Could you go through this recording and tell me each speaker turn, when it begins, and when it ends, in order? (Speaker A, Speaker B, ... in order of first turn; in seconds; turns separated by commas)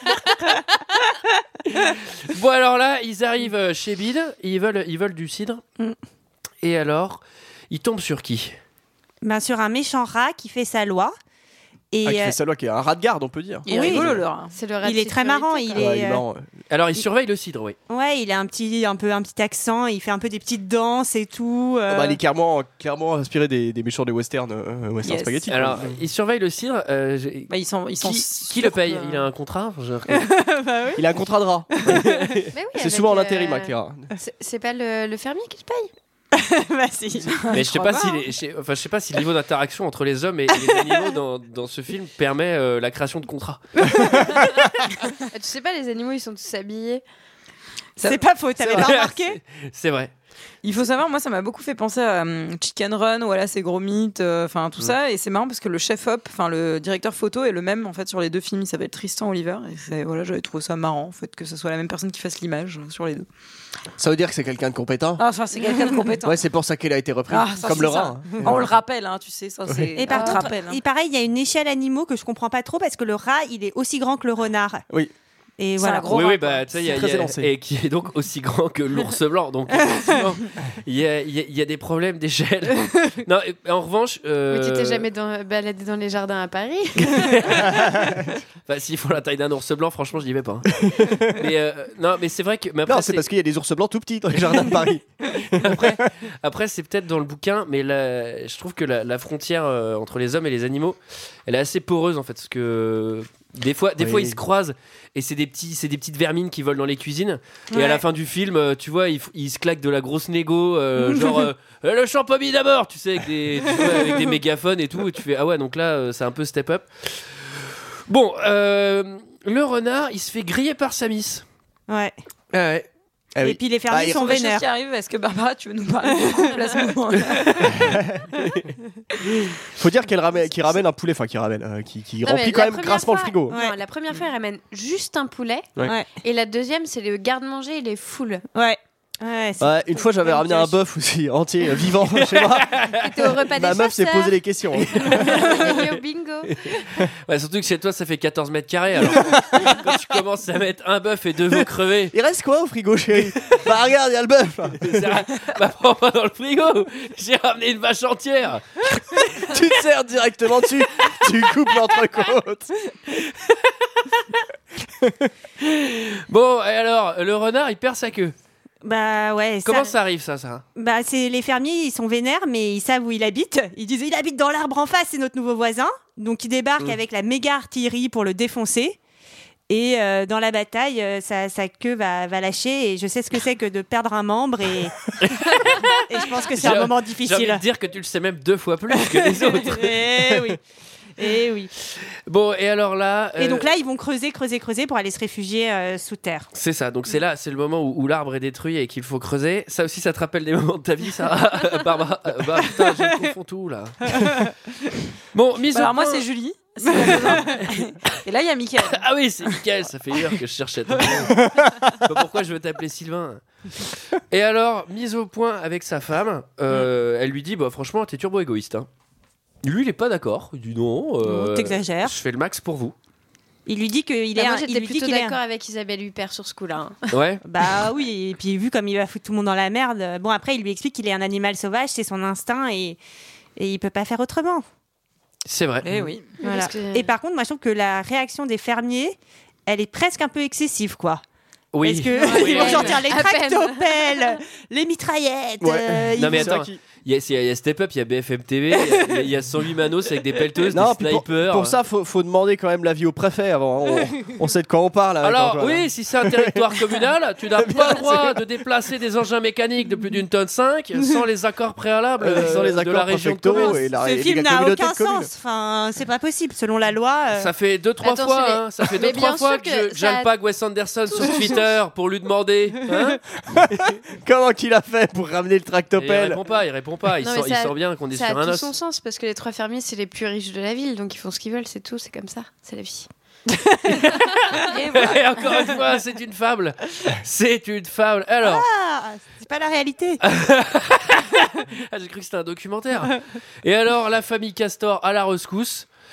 Speaker A: 1.8-5.6, Speaker A: 6.6-8.6, Speaker B: 9.2-11.1, Speaker B: 11.9-12.3, Speaker C: 12.0-14.2, Speaker D: 13.7-14.5, Speaker B: 13.7-14.2, Speaker E: 14.5-16.0, Speaker B: 14.8-16.2, Speaker C: 15.7-16.5, Speaker A: 16.7-17.8, Speaker B: 17.9-22.2, Speaker C: 21.9-26.0, Speaker D: 25.0-25.4, Speaker A: 25.5-30.3, Speaker D: 27.5-29.3, Speaker B: 30.2-31.0, Speaker C: 30.9-34.1, Speaker E: 32.5-35.9, Speaker B: 36.3-37.4, Speaker D: 37.3-38.2, Speaker A: 37.5-43.6, Speaker B: 43.8-44.2, Speaker E: 45.3-47.0, Speaker D: 48.0-48.2, Speaker B: 48.0-49.4, Speaker A: 48.6-50.1, Speaker D: 50.6-63.3, Speaker C: 64.0-65.2, Speaker D: 65.2-66.4, Speaker C: 66.2-68.7, Speaker D: 67.3-70.8, Speaker B: 70.0-74.8, Speaker E: 70.1-70.5, Speaker B: 75.6-76.3, Speaker D: 75.8-76.6, Speaker A: 76.1-85.1, Speaker C: 76.8-77.5, Speaker E: 84.5-87.7, Speaker A: 87.0-87.9, Speaker A: 88.7-93.3, Speaker C: 90.8-91.3, Speaker C: 92.8-96.0, Speaker A: 95.5-121.4, Speaker C: 104.0-104.4, Speaker B: 107.7-108.0, Speaker B: 121.9-122.2, Speaker C: 122.5-122.8, Speaker A: 122.5-122.8, Speaker C: 123.3-124.3, Speaker B: 123.4-124.6, Speaker D: 124.1-127.8, Speaker C: 127.7-128.6, Speaker C: 129.7-133.6, Speaker E: 132.2-138.4, Speaker B: 133.5-133.8, Speaker B: 135.8-136.1, Speaker B: 138.5-140.7, Speaker C: 139.6-142.9, Speaker A: 142.5-143.4, Speaker E: 142.9-144.4, Speaker C: 143.6-144.9, Speaker A: 144.9-152.1, Speaker E: 145.1-146.8, Speaker C: 151.5-155.3, Speaker A: 154.8-159.5, Speaker C: 159.4-162.7, Speaker A: 163.3-164.3, Speaker C: 165.0-165.3, Speaker A: 165.6-168.3, Speaker B: 168.8-169.9, Speaker A: 169.6-170.6, Speaker B: 170.8-179.0, Speaker B: 179.7-185.1, Speaker A: 185.2-190.1, Speaker B: 186.1-187.6, Speaker B: 189.0-190.6, Speaker B: 191.2-191.7, Speaker A: 191.8-193.7, Speaker B: 193.4-196.5, Speaker A: 196.5-204.5, Speaker A: 205.3-206.2, Speaker D: 205.7-209.6, Speaker A: 208.9-213.4, Speaker C: 211.4-211.7, Speaker A: 214.1-218.9, Speaker A: 219.6-222.9, Speaker B: 221.2-222.1, Speaker B: 223.7-225.4, Speaker E: 224.3-227.0, Speaker A: 227.1-227.4, Speaker B: 227.4-233.0, Speaker B: 233.6-234.6, Speaker A: 235.4-236.1, Speaker D: 235.8-236.3, Speaker E: 236.4-237.1, Speaker B: 236.4-241.2, Speaker A: 241.7-243.0, Speaker B: 241.8-246.6, Speaker E: 242.1-244.3, Speaker C: 245.6-246.8, Speaker A: 246.2-251.8, Speaker C: 250.7-256.8, Speaker A: 255.2-263.8, Speaker C: 257.5-258.4, Speaker C: 262.2-265.3, Speaker B: 263.9-267.5, Speaker A: 267.4-273.2, Speaker E: 268.0-270.3, Speaker E: 271.1-271.7, Speaker C: 273.5-276.4, Speaker A: 275.9-278.7, Speaker E: 277.2-283.1, Speaker A: 283.9-288.6, Speaker D: 284.7-285.8, Speaker B: 288.4-290.2, Speaker A: 290.2-295.9